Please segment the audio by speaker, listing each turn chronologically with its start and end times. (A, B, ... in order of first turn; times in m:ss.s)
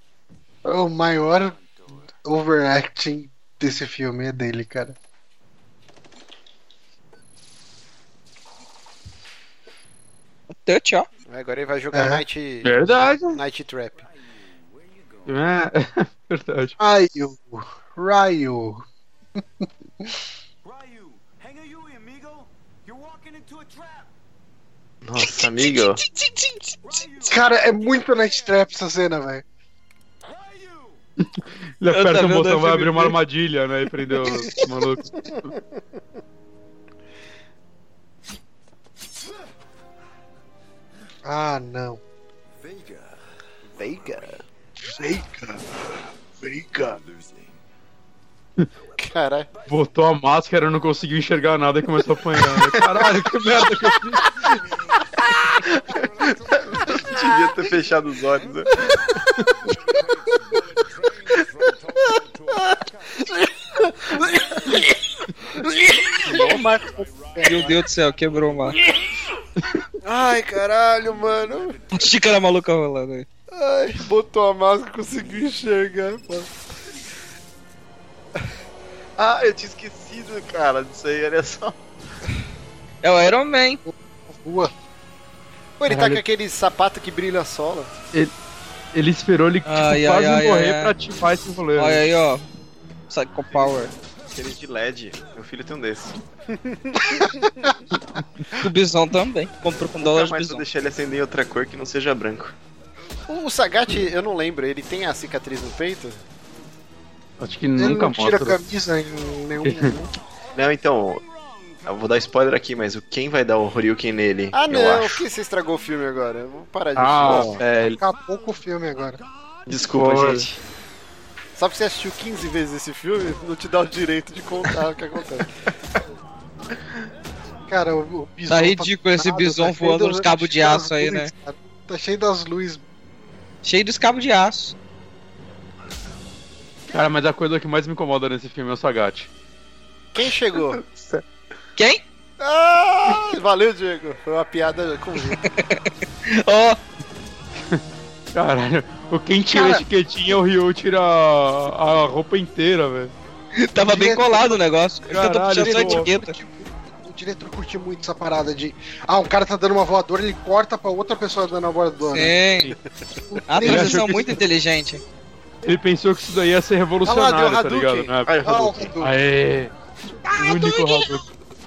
0:00.6-0:01.6 A
0:01.3-0:02.1 B
0:02.1-0:05.0 A
0:10.5-0:11.1 C
0:11.3-0:14.0 D
0:11.9-0:12.2 A
0:12.6-0:13.4 E
0:14.0-0:15.6 B
0:15.2-0:16.8 E
0:16.8-0:18.8 A
0:19.6-0:20.1 A
0:20.6-0:24.1 B
0:25.0-0:26.0 F
0:25.4-0:26.8 C
0:26.8-0:28.3 B
0:27.2-0:29.4 A
0:30.2-0:31.0 B
0:31.2-0:35.5 E
0:31.9-0:33.2 C
0:41.2-0:42.0 A
0:42.6-0:44.4 B
0:43.8-0:44.4 D
0:44.8-0:45.6 A
0:46.4-0:47.0 A
0:46.8-0:47.6 B
0:49.0-0:49.5 D
0:49.5-0:50.0 B
0:49.7-0:54.5 E
0:54.2-0:55.4 B
0:55.9-0:58.2 B
0:55.9-0:58.9 F
0:58.7-0:59.0 B
0:59.6-1:03.5 B
1:04.1-1:04.8 B
1:06.2-1:07.7 A
1:06.2-1:06.8 D
1:06.3-1:07.7 B
1:07.4-1:08.8 C
1:10.0-1:11.8 D
1:11.1-1:12.1 B
1:11.9-1:13.3 C
1:13.5-1:16.6 D
1:19.2-1:21.8 F
1:23.0-1:23.8 C
1:23.8-1:24.7 A
1:25.8-1:27.9 D
1:25.9-1:26.2 E
1:28.9-1:32.0 E
1:29.6-1:30.9 C
1:31.8-1:32.4 C
1:33.1-1:33.9 C
1:34.3-1:36.2 F
1:36.5-1:37.7 D
1:38.5-1:40.6 C
1:40.0-1:42.5 F
1:43.3-1:46.2 D
1:47.4-1:48.6 E
1:47.8-1:50.1 A
1:49.6-1:50.0 E
1:50.5-1:51.2 F
1:51.8-1:55.2 F
1:54.5-1:57.6 D
1:57.0-1:58.0 E
1:57.2-1:58.0 F
1:58.0-1:59.2 A
1:59.7-2:00.6 F
1:59.7-2:00.5 E
2:01.6-2:05.5 D
2:07.7-2:12.8 A
2:08.5-2:11.3 C
2:13.6-2:14.7 C
2:16.9-2:19.3 E
2:20.1-2:20.8 D
2:20.7-2:21.2 F
2:21.8-2:22.0 C
2:22.4-2:25.4 D
2:25.3-2:26.8 C
2:28.3-2:33.1 E
2:29.5-2:29.8 A
2:33.6-2:36.3 C
2:33.8-2:34.6 A
2:35.1-2:36.1 E
2:35.3-2:42.4 A
2:42.1-2:42.7 C
2:43.1-2:44.3 A
2:43.5-2:45.0 C
2:43.6-2:44.4 E
2:45.6-2:49.7 E
2:47.0-2:48.1 D
2:48.2-2:49.0 F
2:48.4-2:49.1 A
2:50.4-2:51.2 E
2:50.5-2:51.1 C